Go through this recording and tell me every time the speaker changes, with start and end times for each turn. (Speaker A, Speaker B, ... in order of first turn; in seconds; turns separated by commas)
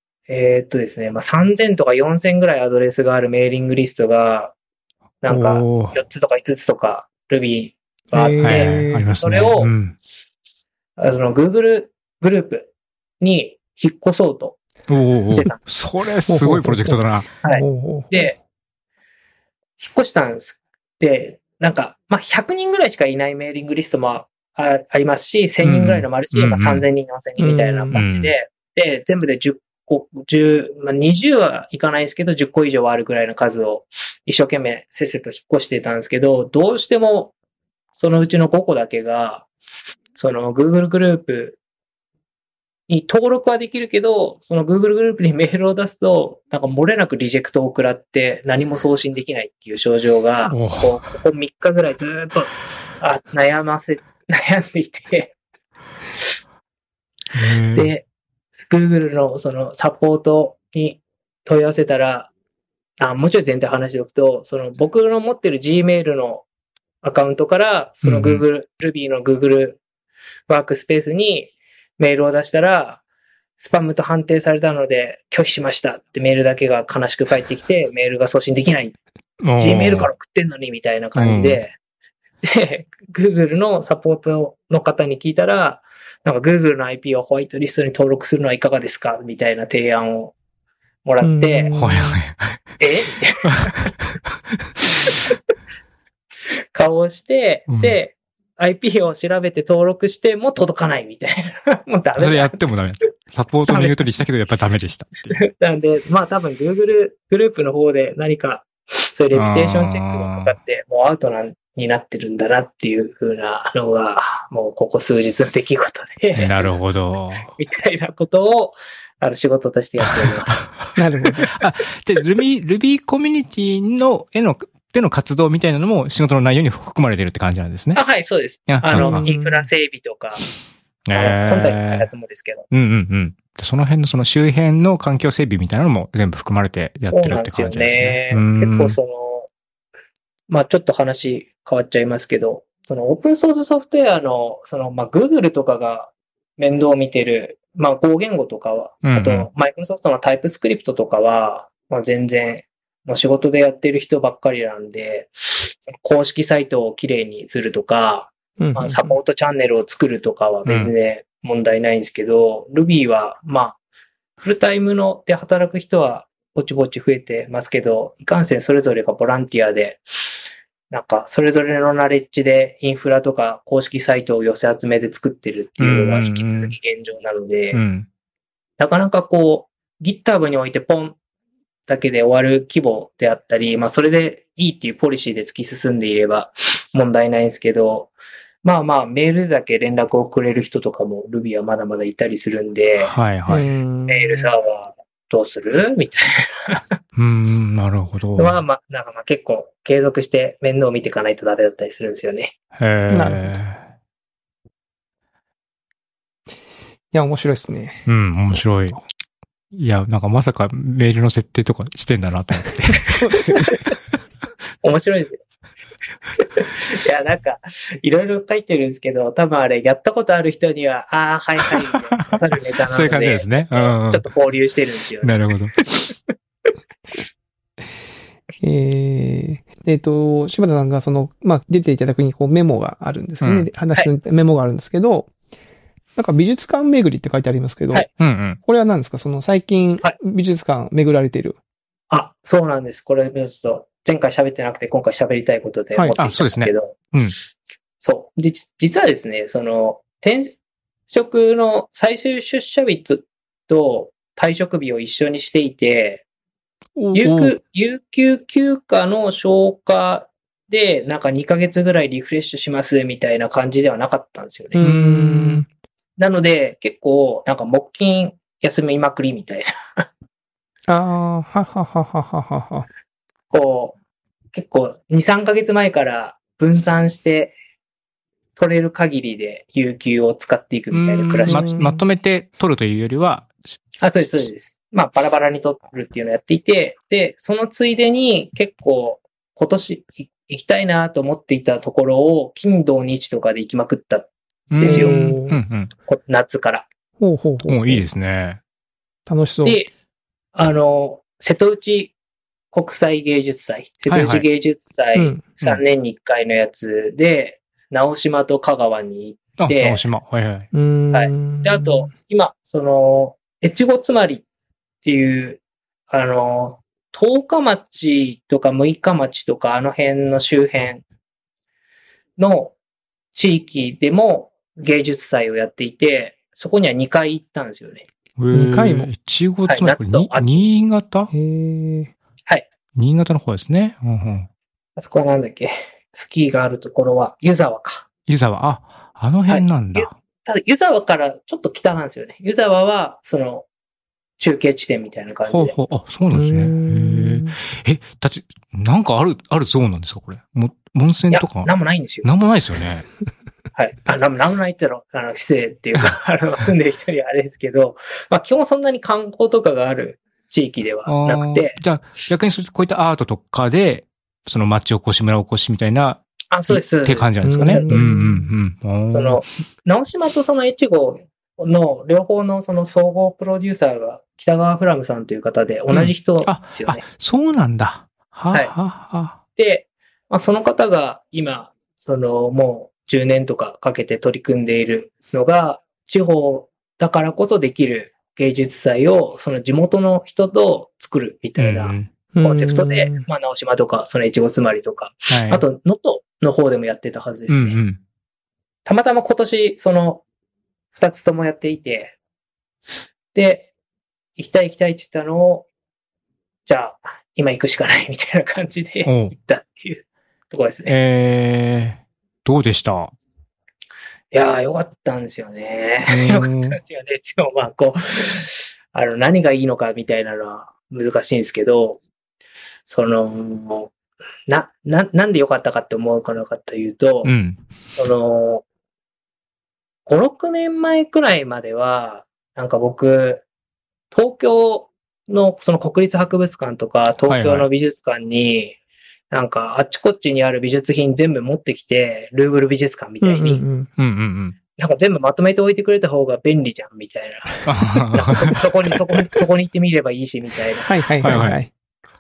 Speaker A: 0.3-4.5, Speaker A: 5.2-9.7, Speaker B: 5.3-6.0, Speaker C: 8.1-9.1, Speaker B: 8.4-10.0, Speaker A: 11.0-12.7, Speaker A: 13.2-14.6, Speaker B: 14.9-17.3, Speaker A: 15.3-15.6, Speaker C: 16.3-18.1, Speaker A: 17.4-18.4, Speaker A: 19.8-37.3, Speaker B: 25.6-26.9, Speaker C: 27.4-28.0, Speaker B: 27.9-28.3, Speaker A: 38.0-39.5, Speaker A: 40.1-41.6, Speaker A: 42.9-55.3, Speaker B: 50.5-51.0, Speaker B: 57.3-57.9, Speaker A: 57.8-62.3, Speaker A: 63.0-66.5, Speaker A: 67.0-69.8, Speaker B: 68.0-68.4, Speaker A: 70.5-73.0, Speaker A: 73.6-79.0, Speaker B: 79.4-80.1, Speaker A: 79.6-81.7, Speaker B: 81.1-81.6, Speaker A: 82.4-90.3, Speaker A: 91.0-91.7, Speaker C: 91.2-92.2, Speaker B: 91.7-92.6, Speaker A: 92.8-93.9, Speaker B: 93.5-93.7, Speaker A: 96.7-102.6, Speaker B: 97.7-98.0, Speaker B: 102.2-105.4, Speaker A: 103.7-104.0, Speaker A: 105.3-116.7, Speaker B: 109.3-110.5, Speaker B: 116.3-117.5, Speaker A: 117.5-120.7, Speaker B: 120.0-120.9, Speaker C: 121.0-121.5, Speaker B: 121.4-128.0, Speaker A: 128.0-130.5, Speaker B: 128.7-129.3, Speaker C: 128.9-129.7, Speaker B: 131.1-132.1, Speaker A: 131.1-132.7, Speaker B: 132.7-139.0, Speaker A: 137.1-139.5, Speaker A: 140.5-163.8, Speaker B: 149.0-149.5, Speaker C: 158.6-159.1, Speaker B: 160.7-160.9, Speaker A: 164.4-170.0, Speaker A: 170.9-177.8, Speaker B: 175.8-176.8, Speaker B: 177.7-178.1, Speaker A: 178.8-181.2, Speaker A: 181.9-193.1, Speaker B: 193.0-193.6, Speaker C: 193.5-194.5, Speaker A: 194.1-196.8, Speaker B: 197.2-198.6, Speaker A: 198.4-202.5, Speaker B: 202.8-203.8, Speaker C: 203.1-203.5, Speaker C: 207.1-208.1, Speaker B: 208.1-209.0, Speaker B: 209.7-213.7, Speaker C: 213.1-213.7, Speaker A: 214.8-215.4, Speaker A: 216.3-225.4, Speaker B: 221.8-222.3, Speaker B: 222.9-224.2, Speaker B: 225.2-225.7, Speaker C: 228.6-235.3, Speaker B: 233.4-233.7, Speaker C: 236.2-241.6, Speaker B: 238.2-238.6, Speaker A: 242.1-246.9, Speaker B: 246.2-247.3, Speaker A: 248.0-250.5, Speaker A: 251.1-256.2, Speaker B: 257.0-257.6, Speaker A: 257.1-264.8, Speaker C: 264.7-265.7, Speaker B: 264.8-265.6, Speaker A: 266.2-270.1, Speaker C: 270.9-272.9, Speaker A: 273.5-274.0, Speaker A: 274.5-277.5, Speaker A: 278.6-281.7, Speaker B: 280.9-283.5, Speaker C: 281.5-282.0, Speaker A: 284.0-295.3, Speaker B: 294.7-295.9, Speaker C: 294.8-295.6, Speaker A: 296.1-296.9, Speaker C: 297.2-298.0, Speaker B: 297.6-298.6, Speaker C: 299.2-299.8, Speaker A: 299.6-299.9, Speaker A: 300.5-302.1, Speaker A: 302.7-310.0, Speaker B: 304.1-304.5, Speaker C: 305.1-305.5, Speaker B: 309.6-310.7, Speaker C: 310.7-312.1, Speaker A: 311.1-314.4, Speaker A: 315.0-321.0, Speaker A: 322.4-322.8, Speaker A: 323.3-328.1, Speaker B: 328.4-331.3, Speaker C: 328.5-329.1, Speaker A: 329.7-330.7, Speaker C: 331.3-332.1, Speaker B: 332.9-334.5, Speaker A: 335.0-338.1, Speaker B: 338.3-340.1, Speaker A: 339.5-343.7, Speaker A: 344.4-345.8, Speaker B: 345.5-351.7, Speaker C: 346.3-347.6, Speaker A: 351.3-352.3, Speaker B: 352.2-353.1, Speaker A: 353.8-361.8, Speaker B: 361.1-369.4, Speaker A: 366.5-368.3, Speaker C: 367.4-368.5, Speaker A: 369.1-377.0, Speaker B: 375.9-379.4, Speaker A: 379.6-397.8, Speaker B: 391.6-392.1, Speaker C: 392.3-393.2, Speaker B: 395.3-395.6, Speaker B: 397.5-398.0, Speaker A: 398.9-400.2, Speaker A: 400.9-402.1, Speaker A: 403.3-403.7, Speaker A: 404.4-405.7, Speaker A: 406.7-410.9, Speaker B: 409.0-409.3, Speaker B: 410.9-413.1, Speaker A: 414.3-422.0, Speaker B: 416.1-416.8, Speaker A: 422.9-423.9, Speaker A: 424.5-427.3, Speaker B: 427.2-427.6, Speaker A: 428.0-428.6, Speaker A: 430.1-433.4, Speaker A: 434.1-438.8, Speaker B: 437.3-437.7, Speaker A: 439.3-443.6, Speaker C: 443.2-443.9, Speaker B: 444.0-444.6, Speaker A: 444.8-450.9, Speaker B: 447.6-448.6, Speaker C: 450.8-451.7, Speaker B: 451.2-451.6